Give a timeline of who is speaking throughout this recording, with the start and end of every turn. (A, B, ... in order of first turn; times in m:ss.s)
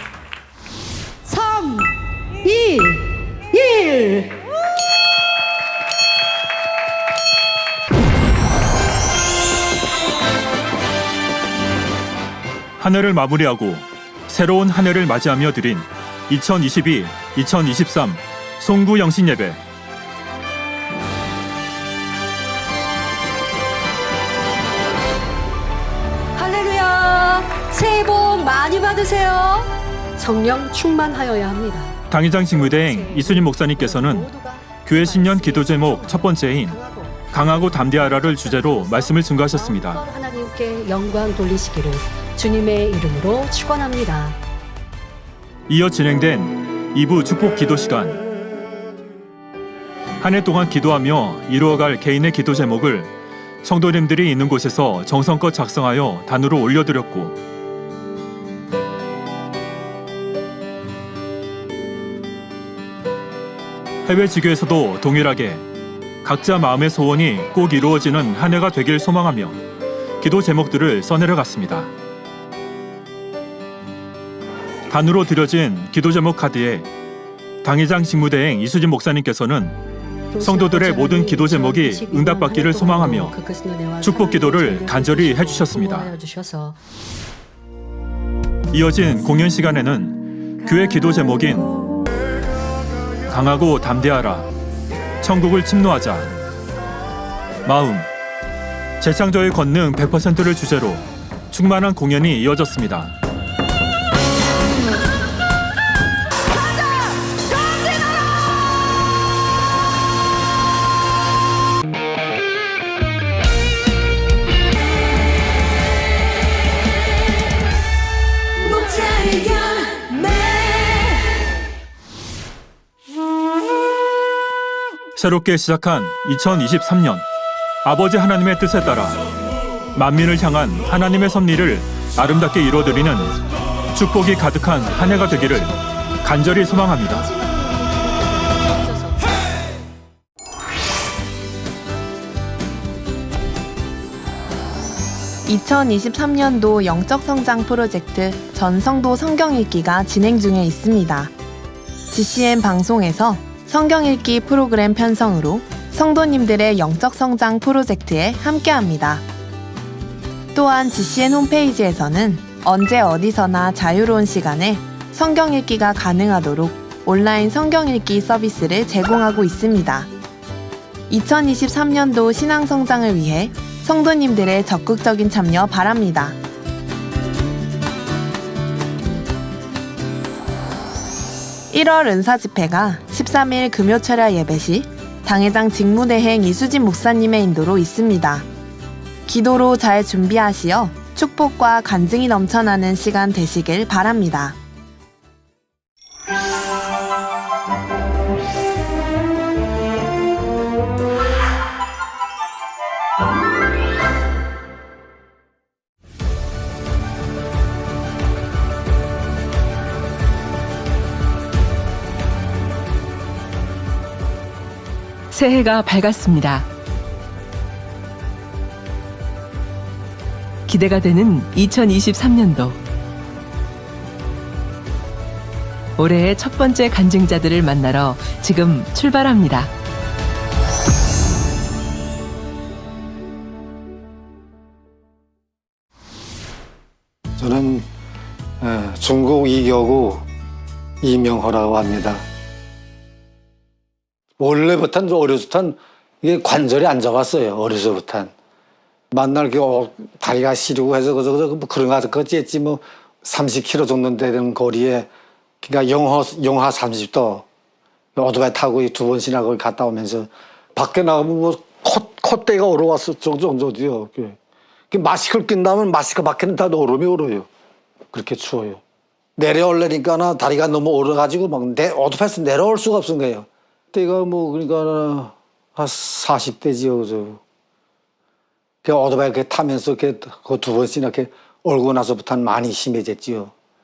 0:01.3-0:01.8 A
0:02.4-0:03.0 A
0:03.5-0:04.3 A
0:12.8-0:19.6 B
0:26.4-0:32.0 A
0:32.1-0:34.3 B
0:32.5-0:44.4 A
0:34.8-0:36.8 B
0:37.3-0:40.0 B
0:45.7-0:48.2 B
0:50.2-0:53.1 B
0:53.6-0:57.4 B
1:04.0-1:05.6 B
1:06.2-1:09.6 B
1:10.2-1:11.9 B
1:14.9-1:16.9 B
1:17.6-1:19.8 B
1:20.3-1:26.8 A
1:20.4-1:23.3 B
1:24.0-1:26.1 B
1:28.7-1:31.7 B
1:33.3-1:34.5 B
1:35.2-1:36.3 B
1:37.6-1:38.1 B
1:39.0-1:43.1 B
2:05.2-2:07.2 B
2:07.8-2:09.2 B
2:09.9-2:13.4 B
2:12.8-2:19.4 A
2:13.9-2:17.3 B
2:25.4-2:31.3 C
2:32.1-2:39.2 C
2:40.5-2:50.1 C
2:51.1-2:56.4 C
3:01.7-3:08.4 C
3:09.2-3:14.6 C
3:35.3-3:36.7 D
3:40.7-3:42.8 D
3:46.0-3:49.7 D
3:57.4-3:57.9 E
3:58.6-4:00.2 E
4:01.0-4:02.2 E
4:04.4-4:08.3 E
4:09.1-4:15.1 E
4:15.6-4:17.4 E
4:18.2-4:24.4 E
4:24.9-4:27.5 E
4:28.1-4:28.8 E
4:29.4-4:37.4 E
4:38.8-4:43.5 E